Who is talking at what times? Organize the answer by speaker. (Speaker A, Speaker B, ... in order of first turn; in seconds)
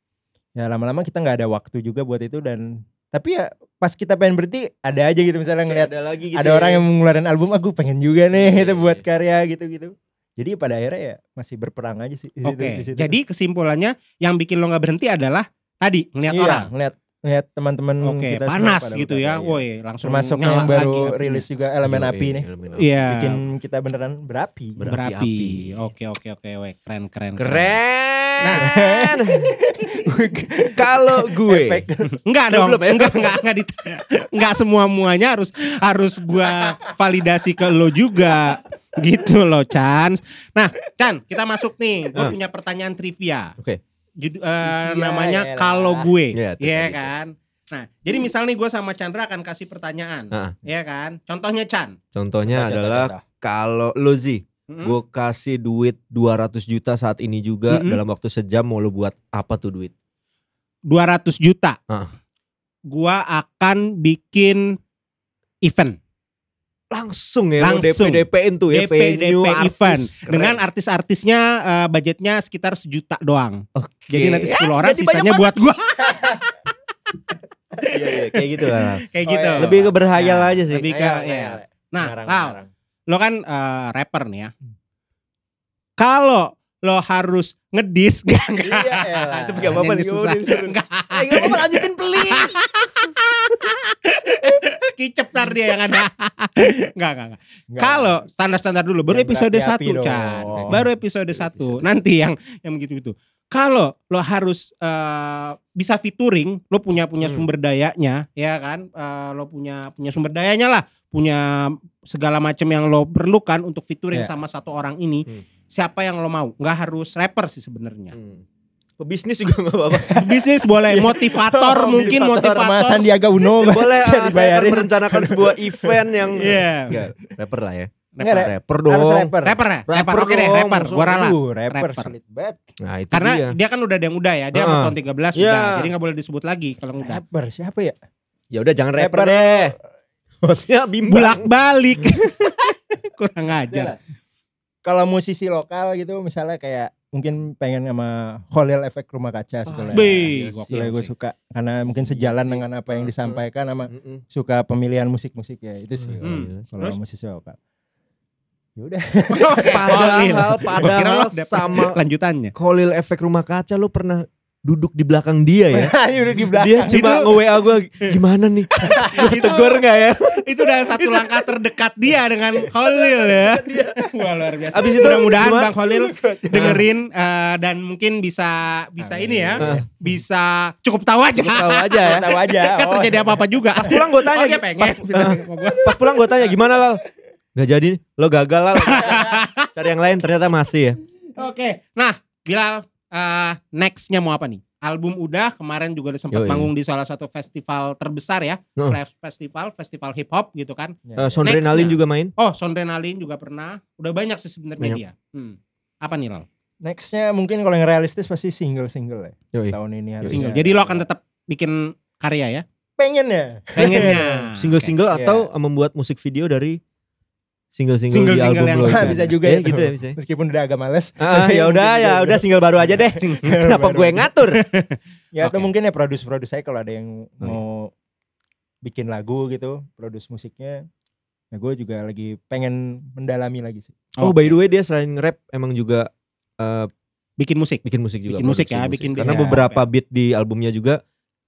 Speaker A: 0.6-13.2, 16.3-22.4, 23.0-24.8, 28.6-32.1, 44.6-46.1, 52.5-53.2, 76.1-76.4, 79.2-80.2, 80.7-82.7, 88.6-89.8, 97.7-98.2, 99.1-100.8, 119.9-120.3, 120.8-127.0, 128.2-129.6, 131.0-132.6, 137.0-137.9, 139.0-139.7, 143.7-143.9, 144.8-157.6, 158.8-160.2, 165.7-167.2, 168.9-169.8, 175.8-176.8, 179.0-179.9, 182.0-183.9, 201.1-201.9, 206.8-211.0, 213.0-214.4, 215.1-215.5, 218.8-224.3, 225.3-227.9, 228.8-230.8, 231.5-233.9, 239.2-239.6
Speaker B: 5.7-6.8, 8.3-9.0, 21.8-22.9, 24.8-25.8, 27.4-29.5, 30.8-31.8, 32.5-33.4, 46.3-47.1, 52.1-59.9, 66.9-70.6, 73.7-75.5, 77.9-79.0, 79.6-80.9, 89.5-92.6, 100.5-101.8, 107.2-107.5, 118.1-118.4, 119.0-120.2, 121.5-129.3, 129.9-131.1, 132.8-133.5, 134.5-135.9, 138.5-139.7, 140.4-141.5, 149.7-151.1, 151.8-153.4, 153.9-154.2, 156.0-156.6, 159.7-162.0, 162.5-165.9, 166.5-171.4, 173.0-174.0, 174.7-175.7, 176.5-176.8, 179.6-179.8, 181.4-182.3, 183.8-187.0, 187.5-191.0, 196.3-196.7, 201.2-202.3, 209.5-210.4, 214.6-216.8, 217.7-220.2, 221.2-224.6, 234.2-236.9, 237.8-241.0
Speaker C: 12.4-16.7, 18.0-21.4, 22.8-23.4, 24.9-27.7, 28.4-28.7, 32.2-43.5, 44.2-52.0, 54.7-54.9, 57.7-58.0, 60.9-61.8, 62.9-64.8, 65.6-66.0, 67.6-76.5, 78.8-82.5, 83.1-84.5, 86.0-118.1, 120.1-123.1, 126.4-126.9, 128.2-128.5, 129.4-132.1, 133.1-137.2, 141.1-143.9, 149.9-150.9, 156.2-157.0, 159.3-162.5, 166.9-168.1, 169.1-169.6, 170.3-186.0, 188.8-189.7, 191.4-206.4, 210.3-212.6, 213.8-214.9, 218.1-219.2, 224.5-225.7, 234.2-234.5, 237.4-239.8